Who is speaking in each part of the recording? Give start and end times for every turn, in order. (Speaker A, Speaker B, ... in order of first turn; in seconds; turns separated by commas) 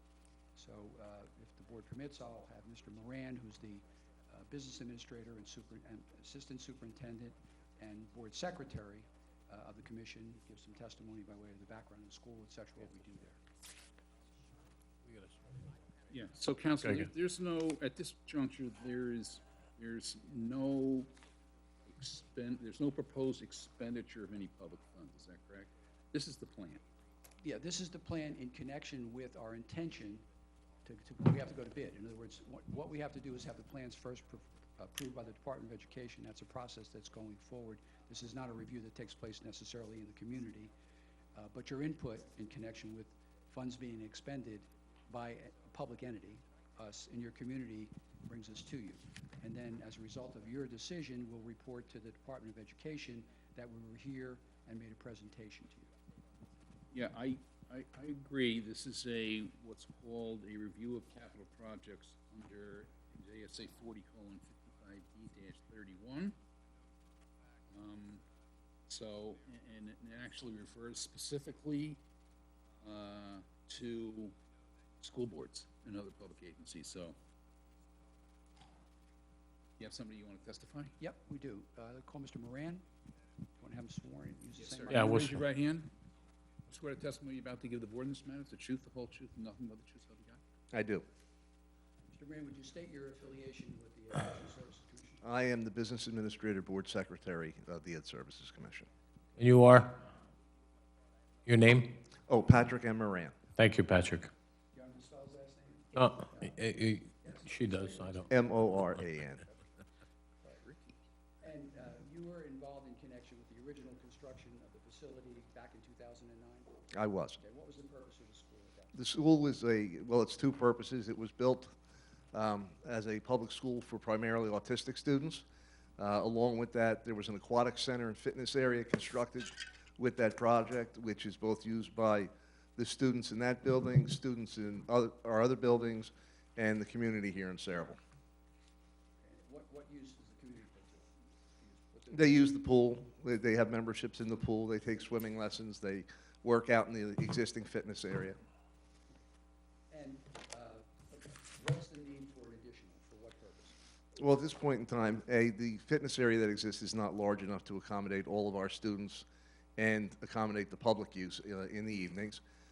Speaker A: 0.6-13.4, Speaker B: 15.1-15.3, Speaker C: 16.1-21.1, Speaker C: 21.9-26.8, Speaker A: 27.4-30.2, Speaker A: 30.9-40.7, Speaker A: 41.4-55.9, Speaker C: 56.9-66.4, Speaker C: 67.7-68.2, Speaker C: 68.9-72.0, Speaker C: 72.8-74.4, Speaker C: 75.0-77.2, Speaker C: 79.8-81.0, Speaker A: 81.0-82.8, Speaker A: 83.6-85.4, Speaker C: 84.6-85.9, Speaker B: 84.9-85.4, Speaker C: 86.7-90.4, Speaker D: 90.7-91.1, Speaker A: 92.1-95.2, Speaker D: 95.2-98.9, Speaker B: 99.4-100.0, Speaker B: 101.5-102.0, Speaker D: 102.3-103.4, Speaker B: 103.5-104.3, Speaker A: 104.7-108.4, Speaker B: 105.9-108.3, Speaker D: 108.3-109.4, Speaker C: 110.6-110.9, Speaker A: 111.4-116.9, Speaker D: 116.9-117.4, Speaker A: 117.4-119.0, Speaker D: 118.9-121.7, Speaker D: 122.3-125.5, Speaker D: 126.0-138.0, Speaker A: 139.2-142.3, Speaker D: 142.1-148.4, Speaker A: 149.9-153.8, Speaker D: 154.2-159.3, Speaker D: 159.8-162.4